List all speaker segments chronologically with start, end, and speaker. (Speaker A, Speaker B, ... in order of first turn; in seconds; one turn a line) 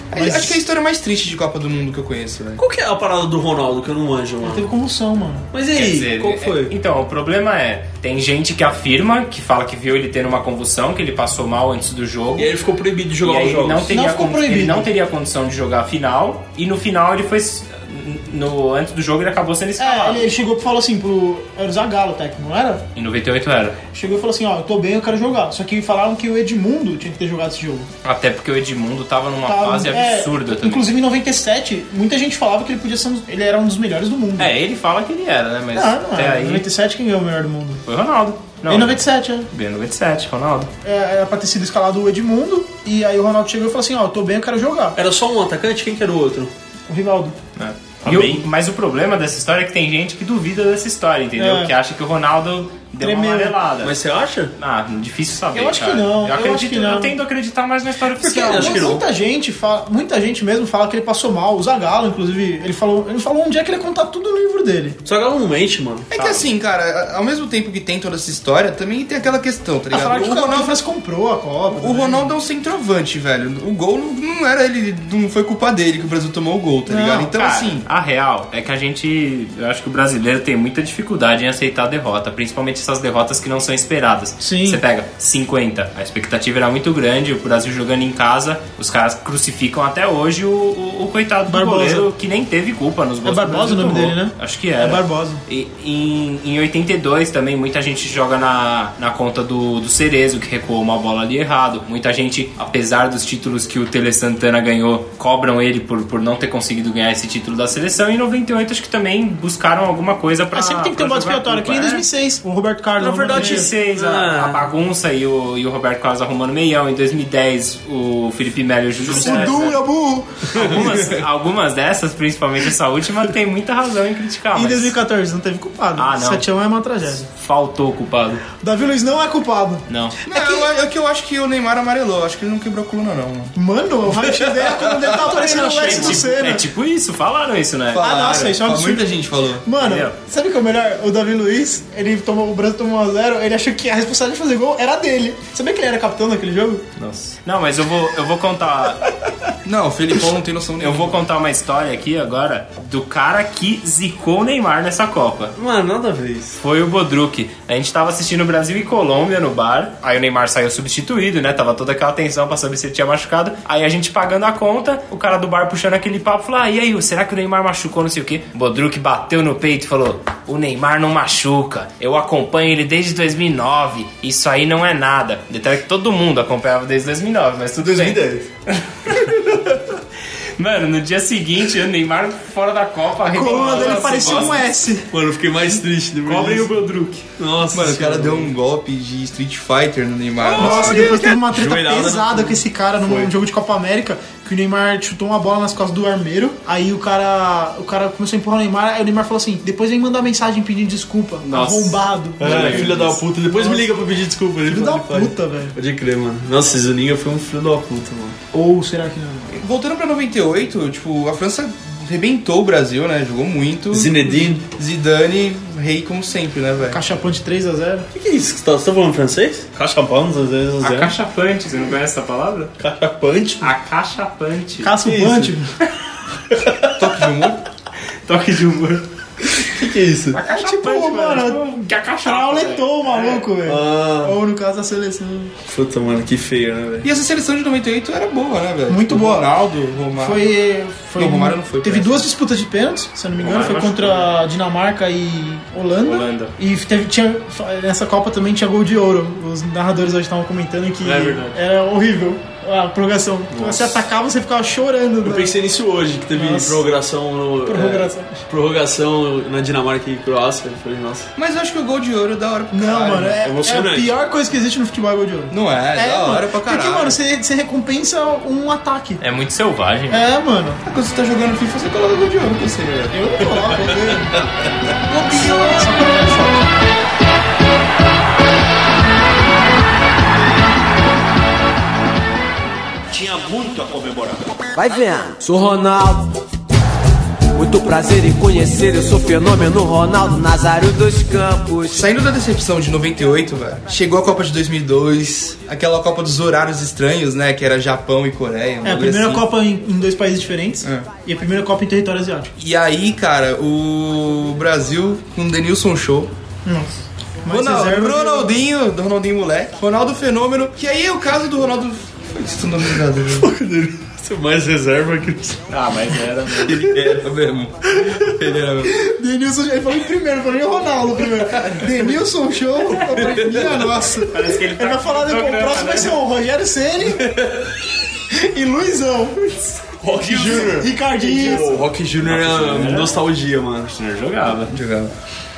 Speaker A: 0.1-2.6
Speaker B: 0.1-0.6
Speaker C: 2.6-4.7
Speaker B: 4.4-5.5
Speaker C: 5.5-6.7
Speaker D: 5.7-12.5
Speaker C: 12.3-13.9
Speaker D: 13.2-20.3
Speaker B: 13.9-14.9
Speaker B: 19.8-22.8
Speaker D: 22.9-23.8
Speaker B: 23.9-27.9
Speaker D: 28.0-30.9
Speaker B: 29.4-34.5
Speaker D: 34.4-36.6
Speaker B: 35.7-37.8
Speaker D: 37.9-40.7
Speaker B: 38.7-39.5
Speaker B: 40.8-44.9
Speaker C: 45.0-46.5
Speaker B: 46.9-47.3
Speaker D: 47.6-54.0
Speaker C: 48.0-48.4
Speaker B: 51.4-51.7
Speaker B: 53.0-53.5
Speaker C: 53.8-54.5
Speaker D: 54.6-59.0
Speaker B: 55.5-57.1
Speaker B: 58.2-65.0
Speaker C: 58.3-59.0
Speaker C: 65.0-66.1
Speaker A: 66.1-70.8
Speaker D: 66.1-66.5
Speaker B: 69.9-72.3
Speaker A: 71.7-77.8
Speaker B: 76.9-77.3
Speaker D: 77.3-112.0
Speaker B: 84.4-84.8
Speaker B: 91.5-92.1
Speaker B: 93.2-95.4
Speaker B: 110.5-113.7
Speaker C: 113.0-114.7
Speaker D: 113.3-119.8
Speaker C: 119.0-119.5
Speaker B: 119.1-121.0
Speaker D: 120.5-125.0
Speaker C: 120.6-120.9
Speaker B: 124.5-127.2
Speaker D: 126.0-126.5
Speaker D: 127.2-128.4
Speaker B: 128.6-130.7
Speaker D: 129.9-130.2
Speaker A: 130.2-133.5
Speaker B: 133.6-136.6
Speaker D: 135.2-138.4
Speaker C: 135.4-136.2
Speaker A: 137.9-139.7
Speaker B: 138.0-139.1
Speaker B: 139.6-146.8
Speaker D: 139.8-140.1
Speaker D: 147.0-149.1
Speaker A: 149.6-151.2
Speaker D: 150.8-155.5
Speaker C: 155.6-156.6
Speaker D: 156.6-179.4
Speaker C: 177.8-178.4
Speaker D: 180.6-184.6
Speaker B: 183.3-185.1
Speaker C: 183.6-184.5
Speaker C: 185.1-186.8
Speaker D: 186.2-187.2
Speaker C: 187.4-188.5
Speaker A: 187.7-191.2
Speaker C: 190.4-193.3
Speaker B: 190.6-203.9
Speaker D: 201.4-203.2
Speaker C: 202.4-208.3
Speaker B: 204.7-205.7
Speaker B: 208.5-209.5
Speaker A: 209.5-217.0
Speaker C: 213.9-214.6
Speaker B: 216.9-218.1
Speaker C: 218.1-221.1
Speaker D: 220.8-222.7
Speaker C: 222.8-223.7
Speaker D: 223.6-224.9
Speaker B: 224.8-225.7
Speaker C: 225.0-225.5
Speaker C: 226.5-227.0
Speaker A: 226.9-227.6
Speaker D: 228.2-229.0
Speaker C: 229.6-230.4
Speaker D: 230.3-233.4
Speaker B: 230.5-235.5
Speaker C: 233.5-234.3
Speaker C: 235.7-237.1
Speaker A: 237.0-240.5
Speaker B: 238.9-239.5
Speaker B: 240.2-255.6
Speaker A: 241.2-242.3
Speaker D: 243.4-244.3
Speaker D: 246.0-246.5
Speaker C: 251.0-251.6
Speaker C: 253.6-253.9
Speaker C: 255.2-261.3
Speaker B: 256.3-256.8
Speaker B: 257.6-258.4
Speaker A: 261.4-263.4
Speaker B: 262.7-269.2
Speaker C: 263.4-264.1
Speaker A: 265.5-267.2
Speaker D: 269.2-270.2
Speaker B: 270.1-270.8
Speaker A: 270.8-273.2
Speaker B: 273.1-274.4
Speaker C: 273.9-274.4
Speaker C: 275.1-275.6
Speaker A: 275.2-275.6
Speaker B: 275.7-276.7
Speaker C: 283.9-284.3
Speaker E: 284.8-286.2
Speaker E: 287.6-291.9
Speaker A: 291.9-299.4
Speaker B: 298.8-302.5
Speaker A: 300.8-301.1
Speaker A: 302.6-306.3
Speaker B: 306.6-308.5
Speaker A: 307.5-313.5
Speaker C: 313.2-317.1
Speaker D: 315.7-316.9
Speaker A: 316.7-319.0
Speaker C: 317.9-318.3
Speaker B: 318.9-327.4
Speaker C: 323.1-323.7
Speaker D: 324.3-326.2
Speaker C: 327.2-327.6
Speaker B: 328.3-331.8
Speaker C: 330.0-333.9
Speaker D: 332.2-333.2
Speaker D: 333.9-334.7
Speaker A: 334.7-335.1